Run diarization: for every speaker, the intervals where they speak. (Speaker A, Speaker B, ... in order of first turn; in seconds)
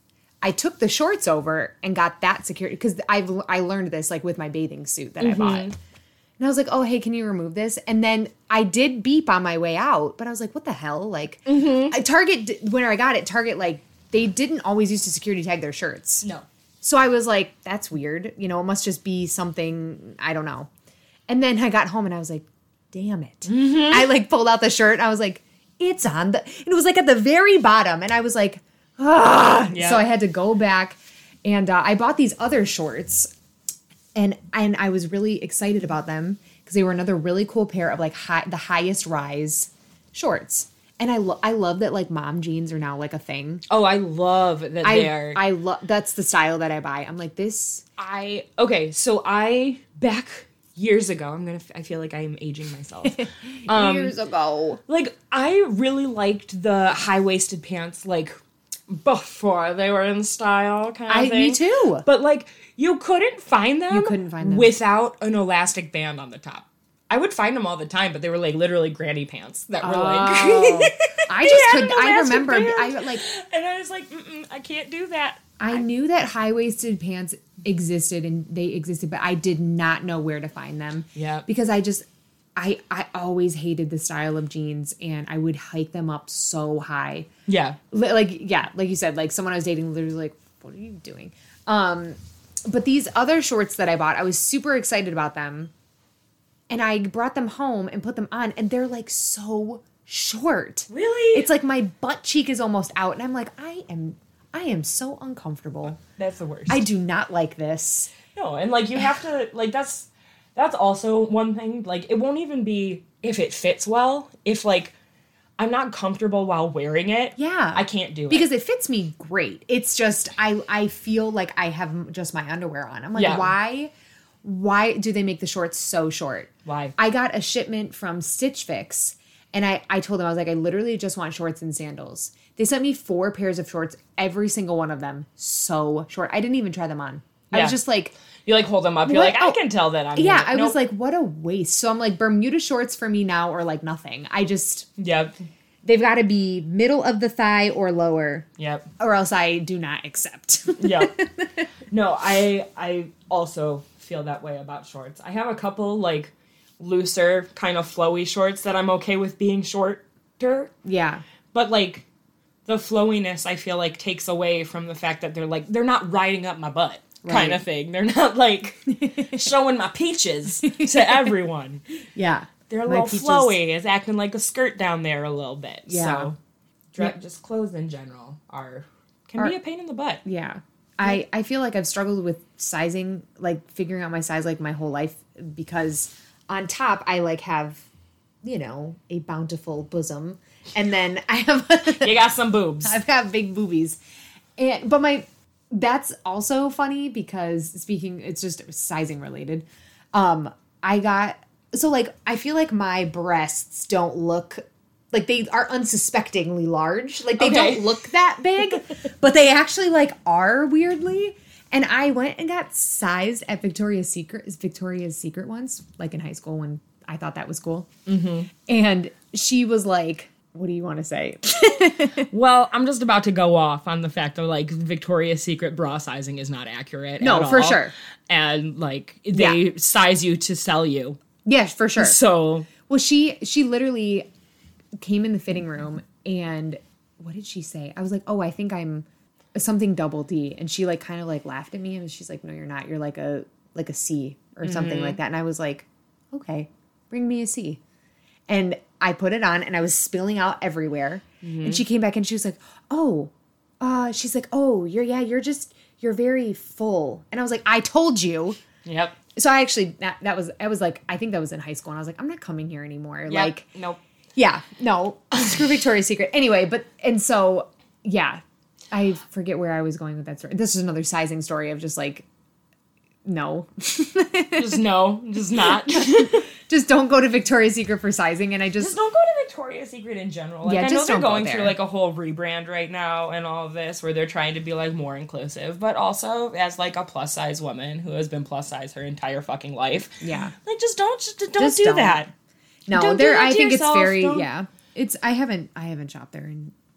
Speaker A: 0.4-5.7, 6.4-16.3, 16.8-20.7, 21.3-33.3, 34.1-43.6, 44.8-47.9, 53.2-54.8, 61.1-62.0, 63.9-64.7, 69.8-73.2, 75.6-82.0, 82.6-87.3, 87.9-95.7, 96.7-106.0, 106.7-108.1, 117.4-123.9, 124.4-138.1, 139.1-139.6, 140.2-144.9, 145.8-148.5, 149.0-151.7, 160.8-161.2, 167.2-167.6, 169.0-169.3, 170.6-171.3, 172.2-173.6, 175.9-176.3, 180.2-187.8, 188.4-192.2, 192.8-194.0, 194.6-217.9, 218.7-222.3, 227.2-227.9, 229.3-229.6, 231.4-232.2, 232.8-234.3, 235.0-247.8, 248.5-258.6, 259.4-263.7, 264.4-268.4, 268.9-272.3, 273.2-274.8, 275.9-279.0, 280.6-281.8, 290.2-290.5, 291.6-292.3, 292.9-296.7
Speaker B: 5.2-5.8, 11.5-12.0, 23.5-24.1, 29.7-30.1, 43.7-45.4, 48.0-54.1, 54.9-58.3, 58.9-75.8, 81.2-81.5, 87.5-87.8, 100.9-101.5, 106.0-106.8, 108.3-114.9, 115.6-118.5, 123.2-123.5, 126.7-126.9, 137.5-137.8, 138.4-140.8, 145.0-145.3, 148.6-148.9, 150.8-151.1, 151.9-160.7, 161.5-162.1, 162.7-171.8, 172.7-176.4, 176.9-180.2, 192.0-193.0, 207.4-208.0, 218.1-218.5, 222.3-231.2, 232.0-232.7, 244.6-245.2, 251.4-251.8, 258.9-259.2, 263.3-264.0, 274.6-276.5, 278.8-292.3, 292.9-294.5